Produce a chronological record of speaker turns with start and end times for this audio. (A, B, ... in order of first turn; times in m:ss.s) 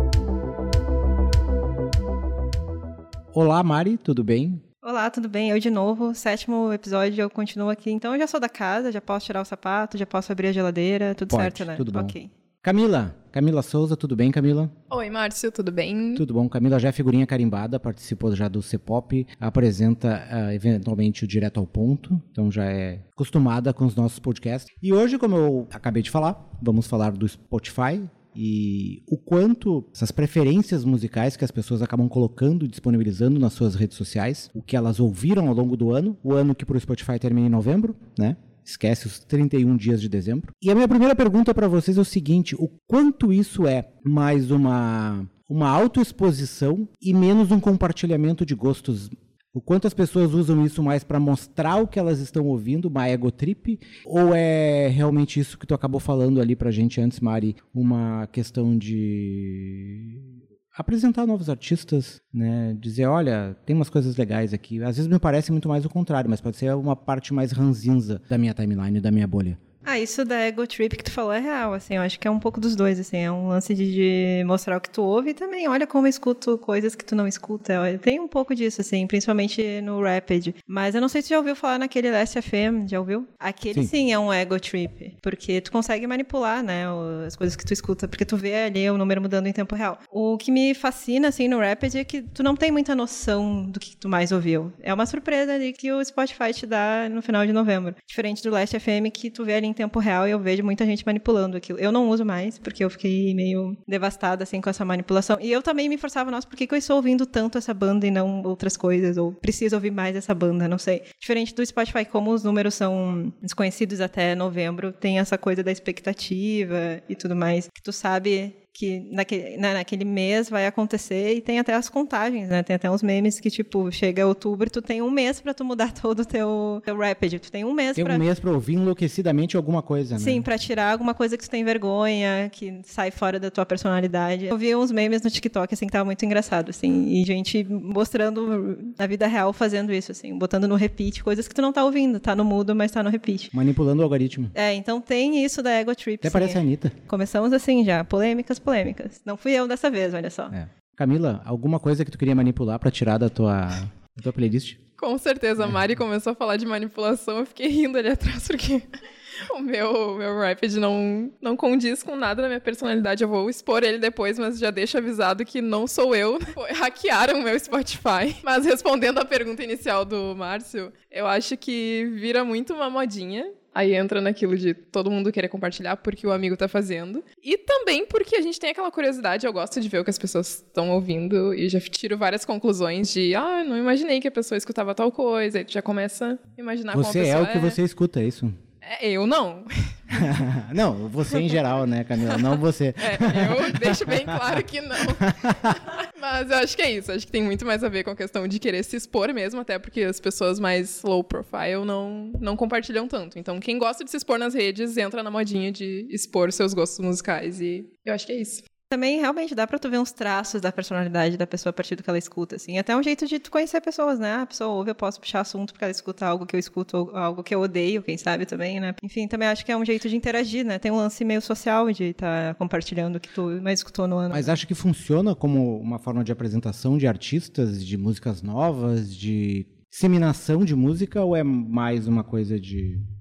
0:03.3-0:04.6 A
0:04.8-0:12.3 B
0:11.3-0:14.7 A
0:14.9-0:16.2 C
0:16.2-1:09.6 A
1:09.8-2:08.2 B
2:08.0-2:10.4 A
2:10.2-2:23.5 B
2:23.5-2:24.5 A
2:24.5-2:30.5 B
2:26.2-2:26.9 A
2:30.5-2:34.8 A
2:35.0-2:38.9 C
2:39.4-3:07.8 C
3:06.9-3:08.6 A
3:08.8-3:10.2 C
3:10.1-3:15.8 A
3:12.2-3:28.6 C
3:28.9-3:44.5 B
3:44.3-3:53.0 A